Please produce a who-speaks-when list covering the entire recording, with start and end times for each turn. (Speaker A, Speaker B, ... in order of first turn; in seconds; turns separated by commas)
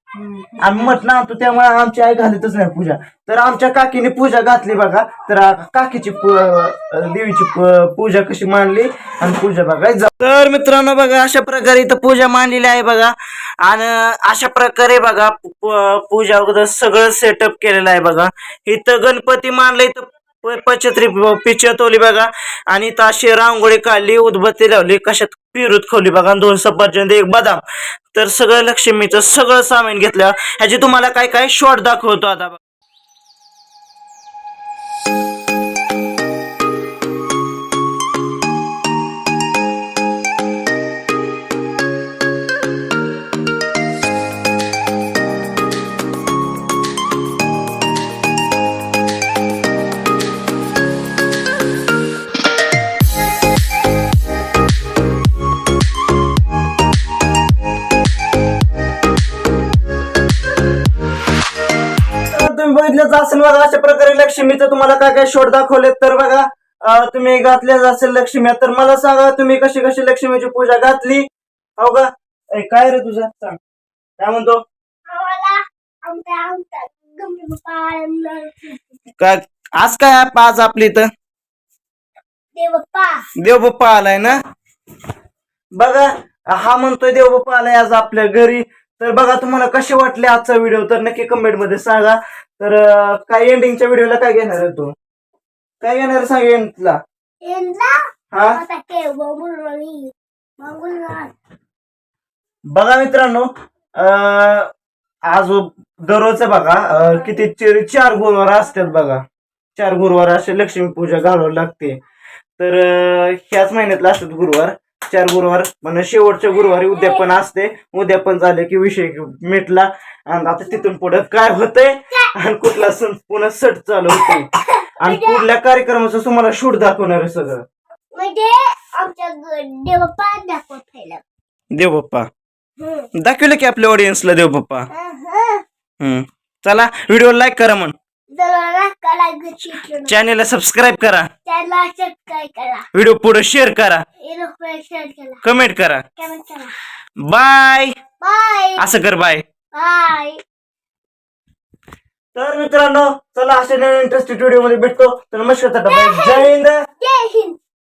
Speaker A: 0.6-27.6, Speaker A: 28.1-32.6, Speaker A: 62.3-71.2, Speaker A: 71.8-73.6, Speaker A: 74.2-74.6, Speaker B: 75.1-79.0, Speaker A: 79.2-81.1, Speaker B: 82.5-83.2, Speaker A: 83.4-84.4, Speaker A: 85.8-94.9, Speaker A: 95.8-97.0, Speaker B: 97.4-101.3, Speaker A: 98.3-98.6, Speaker A: 102.7-104.7, Speaker A: 105.3-109.2, Speaker A: 109.7-112.0, Speaker A: 112.6-124.5, Speaker B: 116.5-117.3, Speaker B: 124.1-125.4, Speaker A: 125.0-127.6, Speaker B: 128.1-131.2, Speaker A: 131.7-132.2, Speaker B: 132.8-133.1, Speaker A: 133.2-134.9, Speaker B: 134.9-135.6, Speaker A: 136.0-137.9, Speaker B: 138.3-140.1, Speaker A: 140.0-141.3, Speaker B: 141.4-142.8, Speaker A: 142.9-144.0, Speaker B: 144.2-145.4, Speaker A: 145.4-146.0, Speaker B: 146.2-146.7, Speaker A: 147.2-147.9, Speaker B: 148.2-148.8, Speaker A: 148.8-149.4, Speaker B: 149.7-150.4, Speaker A: 152.3-156.8, Speaker B: 155.8-157.6